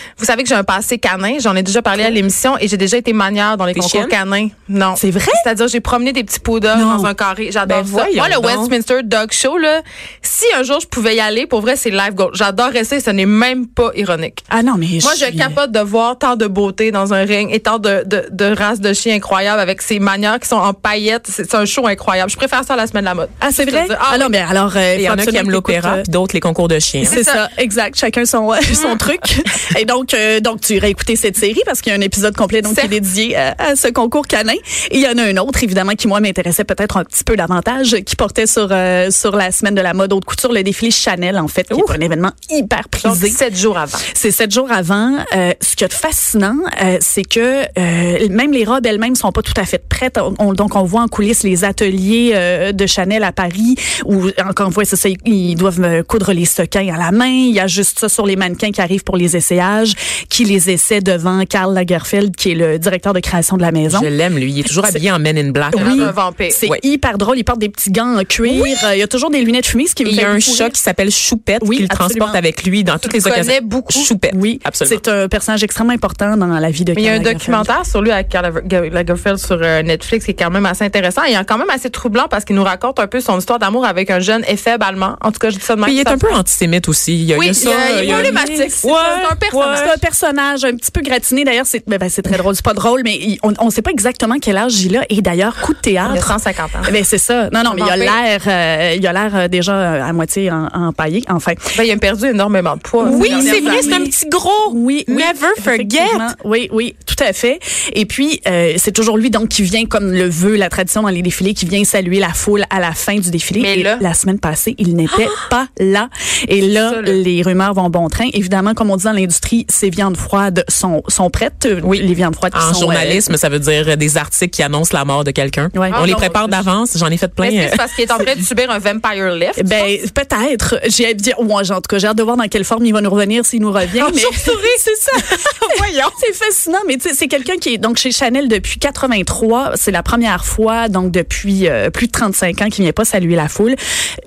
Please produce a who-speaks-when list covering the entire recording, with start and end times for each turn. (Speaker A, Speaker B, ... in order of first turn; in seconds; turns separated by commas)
Speaker A: 0.2-14.4, Speaker B: 3.7-4.1, Speaker C: 5.0-5.5, Speaker C: 6.7-7.1, Speaker B: 7.6-8.7, Speaker C: 14.5-15.6, Speaker A: 15.0-24.4, Speaker C: 23.4-26.1, Speaker B: 24.9-27.2, Speaker C: 27.0-43.4, Speaker A: 27.0-27.4, Speaker A: 32.6-33.0, Speaker B: 41.7-42.0, Speaker A: 43.0-44.1, Speaker C: 44.0-64.1, Speaker B: 63.9-66.1, Speaker C: 64.7-65.0, Speaker C: 65.7-70.8, Speaker A: 65.7-66.6, Speaker B: 68.4-68.9, Speaker B: 70.0-75.0, Speaker C: 71.6-72.4, Speaker A: 73.0-74.1, Speaker C: 74.3-77.7, Speaker A: 77.0-86.4, Speaker B: 85.8-90.0, Speaker A: 87.3-90.0, Speaker C: 87.9-88.8, Speaker C: 89.8-101.8, Speaker A: 96.0-97.0, Speaker A: 97.6-98.2, Speaker A: 101.8-104.1, Speaker C: 103.0-104.1, Speaker B: 103.0-106.3, Speaker C: 104.7-123.3, Speaker A: 113.5-114.1, Speaker A: 116.8-117.2, Speaker B: 121.8-128.3, Speaker C: 125.7-126.5, Speaker A: 125.9-126.6, Speaker A: 127.4-129.9, Speaker C: 129.6-143.8, Speaker B: 133.9-136.2